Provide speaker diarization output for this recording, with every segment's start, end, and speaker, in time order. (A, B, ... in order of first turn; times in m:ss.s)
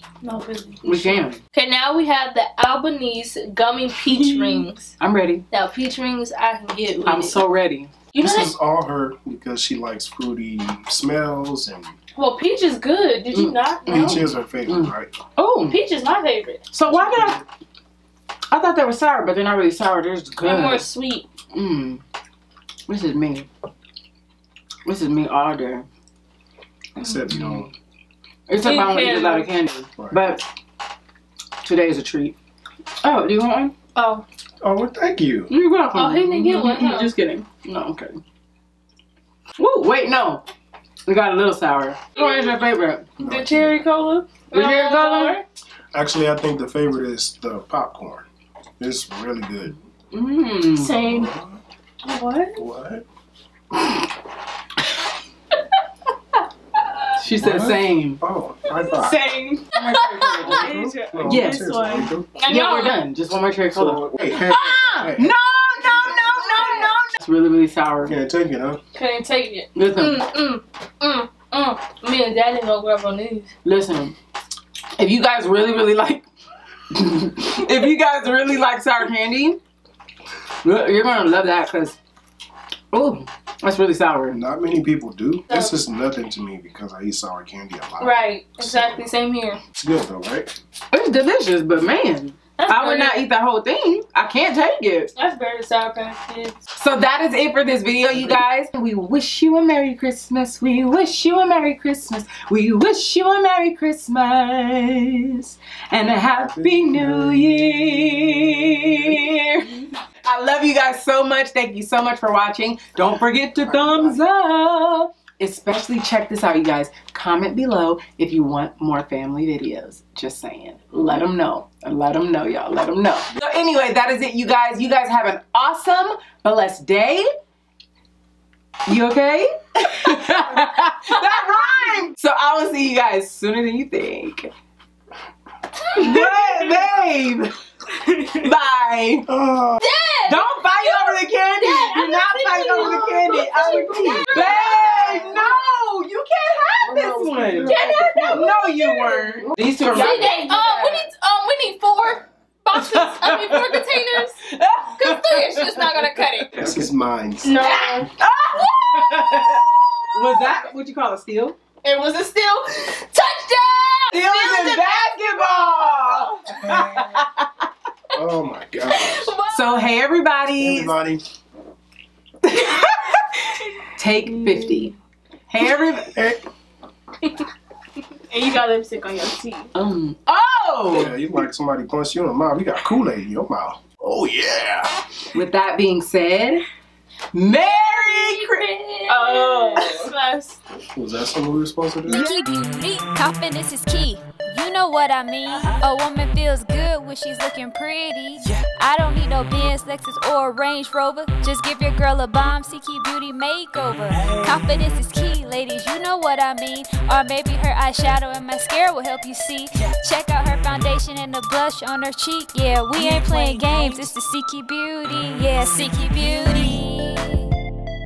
0:00.2-0:04.9 A
0:00.8-0:01.4 B
0:04.1-0:05.4 B
0:05.5-0:07.4 A
0:07.1-0:07.9 B
0:08.1-0:08.6 A
0:08.2-0:11.9 C
0:12.2-0:14.2 A
0:13.3-0:15.8 B
0:13.9-0:15.1 C
0:15.7-0:16.6 A
0:16.7-0:17.4 B
0:16.8-0:17.4 C
0:18.5-0:20.9 B
0:20.4-0:21.3 A
0:21.5-0:22.0 B
0:22.9-0:23.5 B
0:24.8-0:25.9 B
0:27.0-0:27.7 C
0:27.0-0:27.7 B
0:28.5-0:30.5 B
0:28.6-0:29.5 A
0:30.0-0:30.2 C
0:31.6-0:32.3 B
0:33.0-0:33.7 B
0:34.0-0:34.2 A
0:34.6-0:35.5 C
0:35.5-0:38.2 B
0:35.9-0:37.1 A
0:39.6-0:40.4 B
0:41.1-0:43.1 B
0:42.2-0:42.5 A
0:43.2-0:43.8 C
0:43.2-0:45.4 A
0:44.5-0:45.4 B
0:45.9-0:48.3 C
0:48.8-0:49.8 C
0:50.1-0:50.9 B
0:50.8-0:51.3 A
0:50.8-0:51.6 C
0:52.0-0:52.6 A
0:52.6-0:53.0 C
0:57.2-0:58.2 B
0:57.4-0:59.2 C
0:59.0-1:08.2 B
0:59.8-1:00.6 A
1:00.4-1:02.1 D
1:00.4-1:02.3 C
1:02.4-1:03.0 A
1:03.7-1:06.9 C
1:08.0-1:08.8 C
1:09.0-1:13.5 A
1:09.8-1:10.3 B
1:13.6-1:14.2 B
1:15.0-1:16.3 B
1:16.9-1:19.6 B
1:20.6-1:22.0 B
1:22.9-1:24.4 B
1:24.3-1:29.1 C
1:25.5-1:25.8 A
1:28.0-1:29.6 A
1:29.8-1:30.5 C
1:30.9-1:35.1 B
1:32.6-1:33.2 A
1:35.2-1:36.6 A
1:36.8-2:07.3 B
1:38.1-1:38.4 C
1:46.0-1:49.4 C
1:53.6-1:54.2 C
2:08.9-2:14.5 B
2:15.9-2:17.5 B
2:16.0-2:16.7 A
2:18.4-2:19.2 B
2:19.3-2:19.9 C
2:19.8-2:25.4 A
2:20.3-2:30.9 B
2:22.2-2:24.4 D
2:24.2-2:25.5 C
2:26.8-2:28.6 C
2:27.6-2:34.4 A
2:29.9-2:31.0 D
2:32.7-2:36.9 B
2:35.0-2:36.5 A
2:36.6-2:38.0 C
2:37.4-2:38.1 A
2:37.6-2:41.6 B
2:38.8-2:39.5 A
2:41.8-2:46.3 A
2:44.1-2:47.5 B
2:46.6-2:47.2 C
2:48.1-2:49.4 C
2:48.9-2:49.8 A
2:49.5-2:51.0 B
2:50.5-2:51.2 C
2:52.4-2:53.2 B
2:54.0-2:54.9 B
2:55.5-2:56.1 B
2:56.1-2:56.4 C
2:58.3-2:59.7 D
2:59.7-3:01.2 B
3:00.9-3:04.9 C
3:05.3-3:06.6 B
3:07.3-3:09.9 B
3:07.5-3:10.6 A
3:09.1-3:10.4 D
3:10.8-3:12.3 C
3:12.1-3:37.5 E